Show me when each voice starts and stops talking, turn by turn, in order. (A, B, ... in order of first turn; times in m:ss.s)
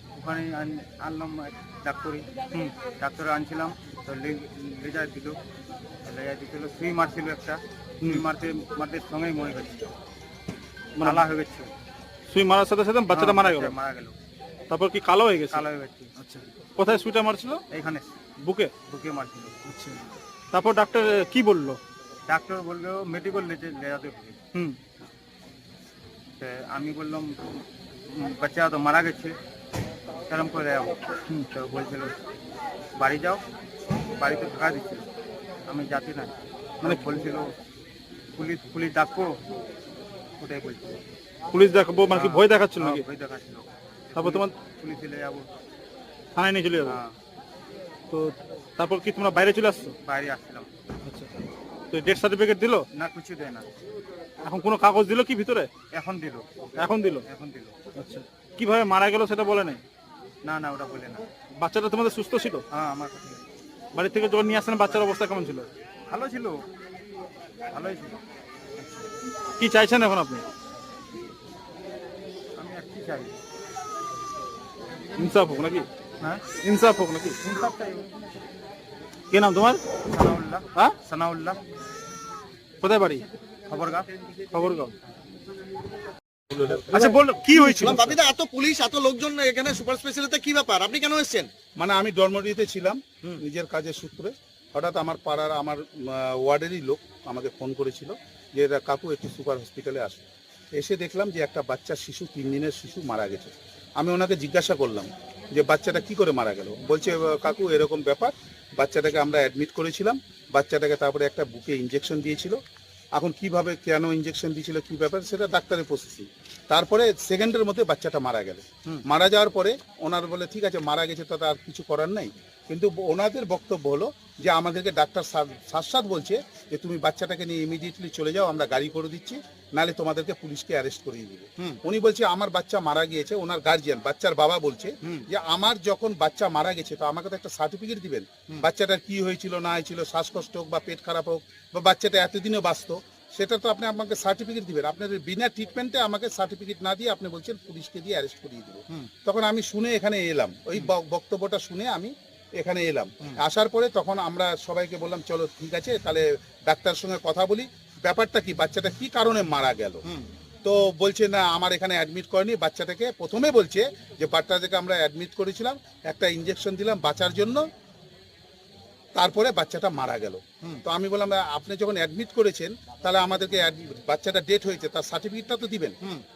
0:00.2-0:02.3 A
0:02.8-0:05.4 A
0:06.0-0:09.9 A
0:11.0-0:11.2 B
0:11.0-0:11.7 A
0:12.3-0:13.7 B
0:13.1-0:14.2 A
0:14.7-0:15.6 B
0:15.5-0:16.1 A
0:16.2-0:17.6 B
0:17.7-0:18.1 A
0:18.4-0:18.7 B
0:18.9-0:19.6 A
0:19.7-0:21.8 B
0:22.3-0:24.4 A
0:26.4-0:27.4 A
0:28.1-0:29.4 A
0:30.3-0:32.2 A
0:33.0-0:33.4 A
0:34.2-0:35.1 A
0:35.7-0:37.5 A
0:38.4-0:39.4 A
0:40.4-0:41.0 A
0:41.5-0:43.0 B
0:42.1-0:45.6 A
0:44.2-0:44.5 B
0:46.4-0:47.0 B
0:46.8-0:47.2 A
0:48.1-0:50.0 B
0:50.0-0:50.7 A
0:51.1-0:51.4 B
0:51.9-0:52.9 B
0:52.9-0:53.7 A
0:54.4-0:55.7 B
0:55.9-0:57.8 A
0:56.8-0:57.2 B
0:58.0-0:59.8 B
1:00.4-1:01.2 A
1:01.6-1:02.6 B
1:02.7-1:03.4 A
1:04.0-1:05.7 B
1:06.1-1:06.6 A
1:07.7-1:08.2 A
1:08.8-1:09.1 A
1:09.6-1:10.4 B
1:12.6-1:13.4 A
1:15.2-1:15.9 B
1:16.2-1:16.5 A
1:16.5-1:17.4 B
1:17.4-1:18.2 A
1:19.3-1:19.9 B
1:20.1-1:21.6 A
1:22.8-1:23.2 B
1:23.7-1:24.1 A
1:24.5-1:24.9 B
1:26.5-1:31.5 C
1:26.7-1:28.2 B
1:31.8-1:52.6 D
1:53.2-2:40.1 D
2:40.6-2:47.6 D
2:49.2-2:56.0 D